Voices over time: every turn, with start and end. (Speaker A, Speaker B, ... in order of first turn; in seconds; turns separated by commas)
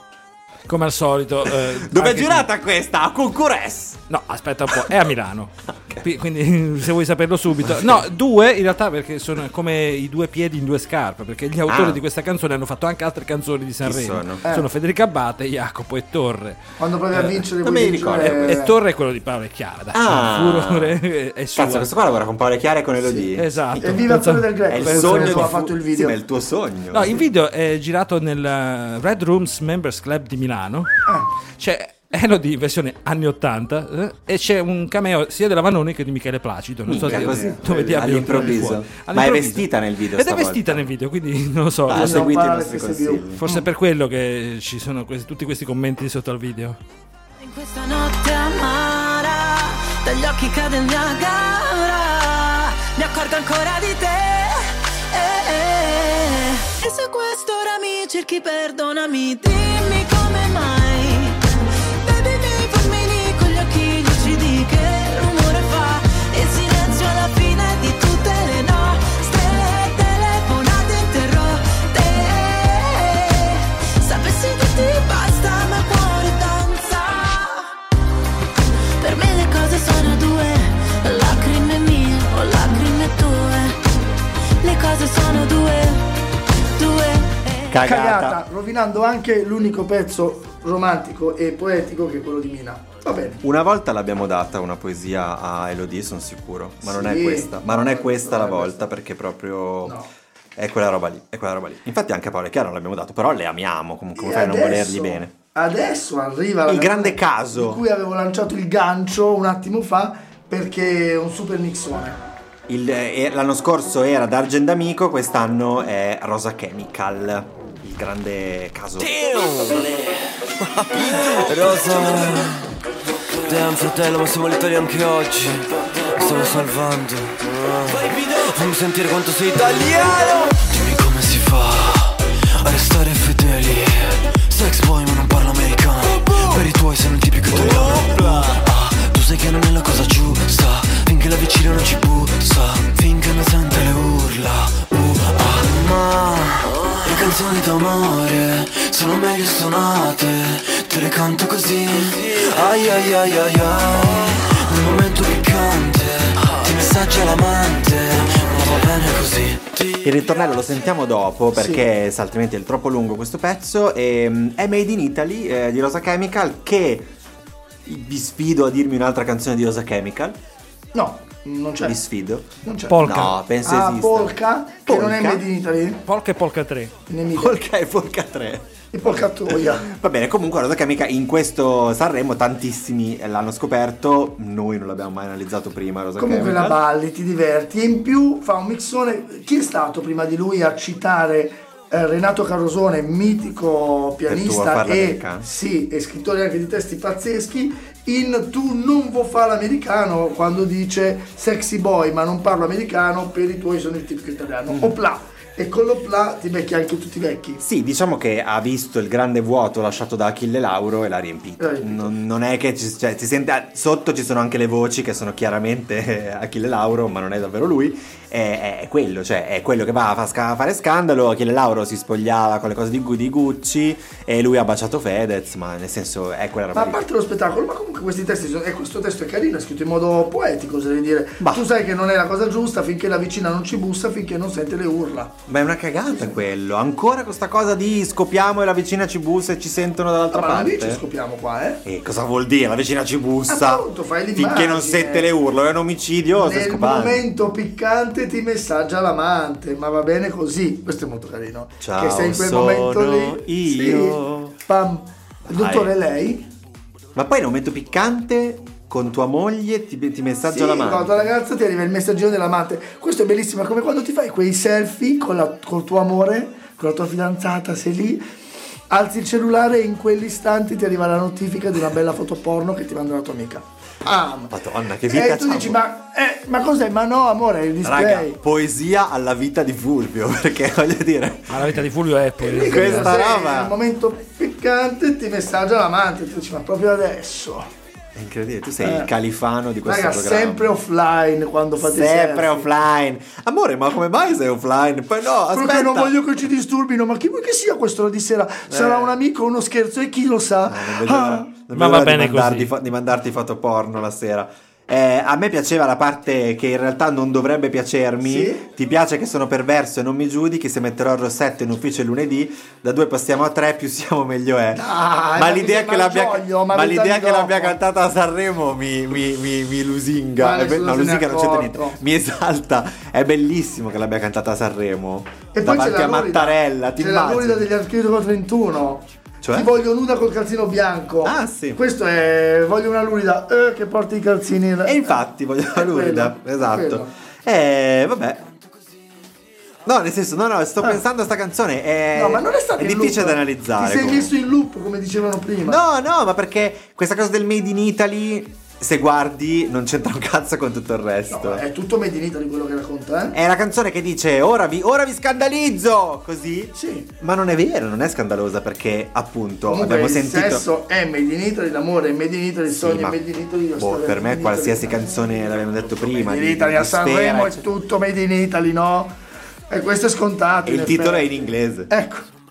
Speaker A: 0.7-2.5, Speaker B: 1.5-4.0, Speaker A: 4.1-16.6, Speaker B: 7.7-8.0, Speaker B: 11.7-12.0, Speaker B: 13.8-14.4, Speaker C: 16.8-18.7, Speaker A: 17.1-17.4, Speaker B: 17.6-18.6, Speaker A: 18.2-21.9, Speaker B: 19.9-21.0, Speaker B: 21.6-23.8, Speaker C: 23.0-23.3, Speaker A: 23.4-25.6, Speaker C: 23.8-26.2, Speaker B: 24.7-27.3, Speaker A: 26.9-30.9, Speaker A: 31.6-42.3, Speaker B: 36.9-40.9, Speaker B: 41.9-43.4, Speaker C: 41.9-43.6, Speaker A: 43.4-46.8, Speaker D: 47.4-54.5, Speaker D: 55.1-61.4, Speaker D: 62.0-77.6, Speaker D: 79.0-83.8, Speaker D: 84.6-86.0, Speaker D: 86.8-87.6, Speaker B: 87.7-88.4, Speaker C: 87.8-93.4, Speaker B: 93.4-100.0, Speaker C: 96.8-98.9, Speaker B: 100.6-105.3, Speaker C: 104.2-112.2, Speaker B: 106.7-107.8, Speaker B: 112.7-119.1, Speaker E: 119.0-122.7, Speaker E: 123.4-160.0, Speaker B: 160.0-167.1, Speaker C: 161.6-161.8, Speaker B: 167.9-170.4, Speaker C: 170.9-172.0, Speaker B: 171.8-175.5, Speaker C: 172.6-173.0, Speaker A: 172.9-173.4, Speaker C: 173.6-176.0, Speaker A: 176.1-176.9, Speaker C: 177.1-177.6, Speaker B: 177.3-186.8, Speaker C: 178.9-179.9, Speaker C: 186.2-207.6, Speaker B: 194.3-195.5, Speaker B: 204.7-205.0, Speaker B: 207.6-227.1, Speaker C: 211.6-212.1, Speaker C: 226.7-235.4, Speaker B: 231.4-231.7, Speaker B: 235.5-241.0, Speaker C: 240.3-241.8, Speaker B: 241.8-247.2, Speaker C: 243.5-245.3, Speaker C: 246.4-256.5, Speaker B: 251.8-254.6, Speaker B: 255.5-255.9, Speaker B: 257.1-261.3, Speaker C: 260.5-268.2, Speaker C: 268.9-274.6, Speaker B: 274.5-275.8, Speaker C: 275.1-278.4, Speaker B: 277.8-281.7, Speaker A: 281.5-283.1, Speaker C: 282.4-287.7, Speaker B: 282.6-283.8, Speaker B: 288.1-290.8, Speaker C: 288.8-289.1, Speaker C: 289.9-292.7, Speaker B: 291.8-296.2, Speaker C: 295.5-301.5, Speaker B: 298.7-299.2, Speaker B: 300.7-327.7, Speaker A: 301.7-302.7, Speaker C: 308.2-308.7, Speaker C: 314.7-317.8, Speaker C: 320.4-322.0, Speaker C: 325.5-337.1, Speaker B: 329.4-329.7, Speaker B: 331.2-331.8, Speaker B: 334.9-338.5, Speaker B: 339.9-344.3, Speaker C: 342.1-345.8, Speaker B: 345.6-351.6, Speaker C: 351.3-353.4, Speaker B: 353.3-360.7, Speaker C: 356.8-357.1, Speaker C: 359.7-365.1, Speaker B: 362.7-363.2, Speaker B: 363.8-367.7, Speaker C: 365.9-369.2, Speaker C: 369.7-372.3, Speaker B: 370.7-371.9